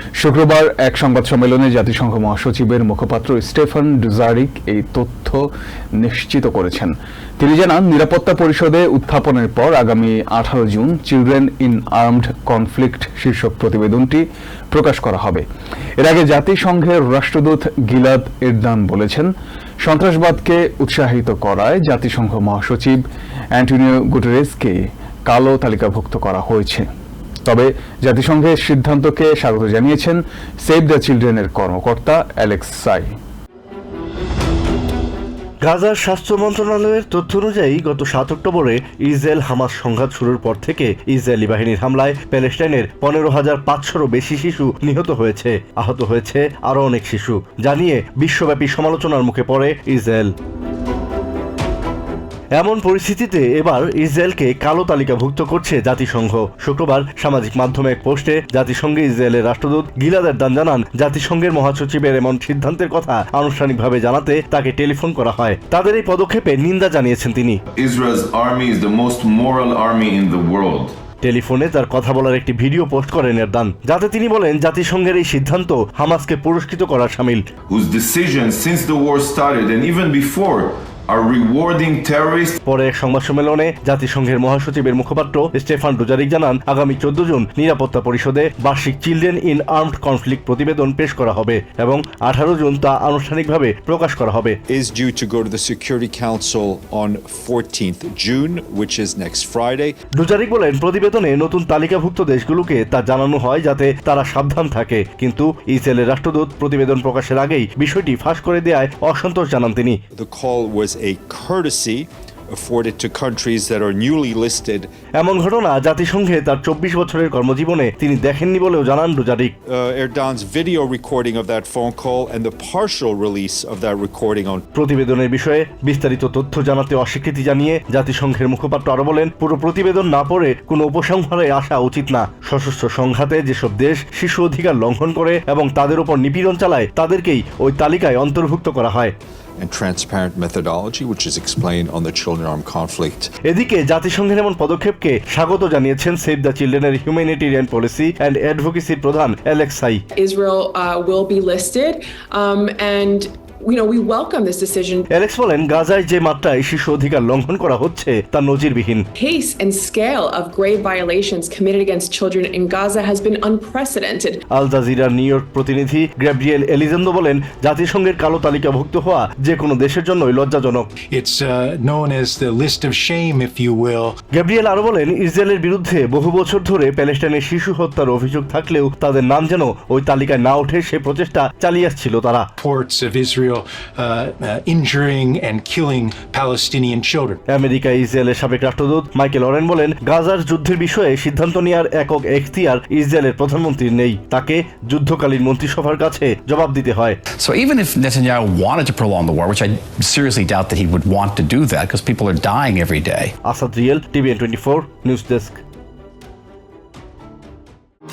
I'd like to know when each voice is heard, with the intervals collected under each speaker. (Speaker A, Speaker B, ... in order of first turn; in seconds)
Speaker A: 0.2-5.5, 6.0-15.4, 16.0-19.3, 19.8-23.0, 23.6-26.9, 27.4-33.1
Speaker B: 35.6-50.3, 52.5-67.6, 71.2-77.5, 82.7-94.6, 100.2-110.0, 115.2-119.5, 124.8-139.1, 143.5-150.0, 155.1-159.1, 164.5-170.9, 174.3-182.5, 187.5-197.2, 203.4-205.6
Speaker C: 67.8-70.9, 77.7-82.6
Speaker D: 94.7-100.0, 110.1-114.9, 119.7-124.7, 139.6-143.3
Speaker E: 150.2-155.1, 159.2-164.4
Speaker F: 171.1-174.2, 182.6-187.4
Speaker G: 197.4-203.3